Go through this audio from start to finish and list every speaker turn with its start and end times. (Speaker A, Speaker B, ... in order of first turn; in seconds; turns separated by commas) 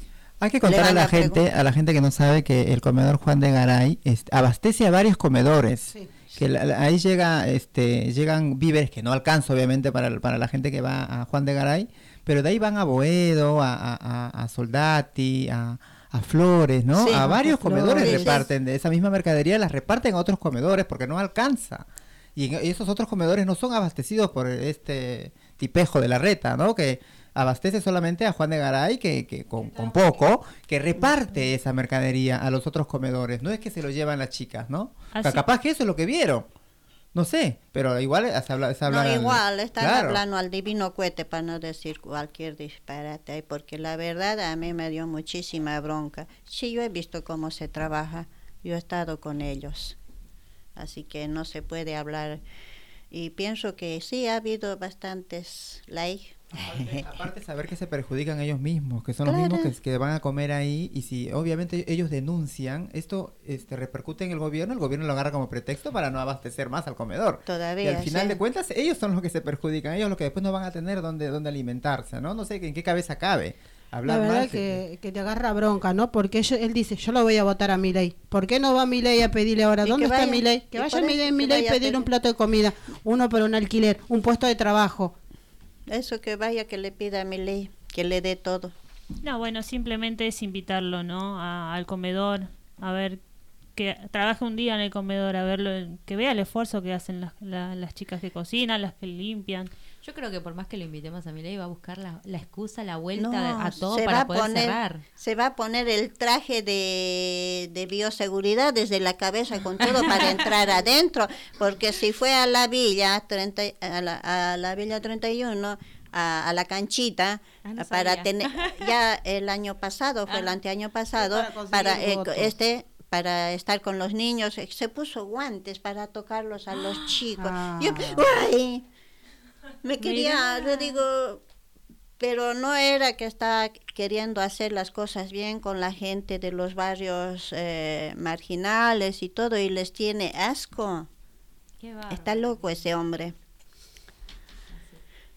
Speaker A: 0.4-36.5, Speaker B: 0.6-1.4, Speaker B: 17.0-17.3, Speaker C: 17.0-18.4, Speaker B: 17.9-18.4, Speaker D: 35.1-35.4, Speaker A: 37.1-40.2, Speaker B: 38.9-50.0, Speaker B: 50.8-52.4, Speaker B: 53.1-56.9, Speaker A: 56.6-74.8, Speaker B: 59.2-59.7, Speaker B: 67.5-68.4, Speaker C: 74.0-85.1, Speaker B: 79.8-82.0, Speaker B: 85.9-88.7, Speaker D: 89.2-93.2, Speaker D: 93.7-99.7, Speaker E: 100.0-105.0, Speaker B: 103.2-128.9, Speaker E: 110.0-110.3, Speaker E: 117.6-118.9, Speaker E: 120.3-120.5, Speaker C: 121.2-122.5, Speaker E: 126.8-127.2, Speaker C: 127.4-128.2, Speaker B: 129.8-131.4, Speaker D: 130.0-131.0, Speaker B: 132.2-141.1, Speaker E: 141.8-142.7, Speaker B: 142.1-143.3, Speaker E: 144.7-145.0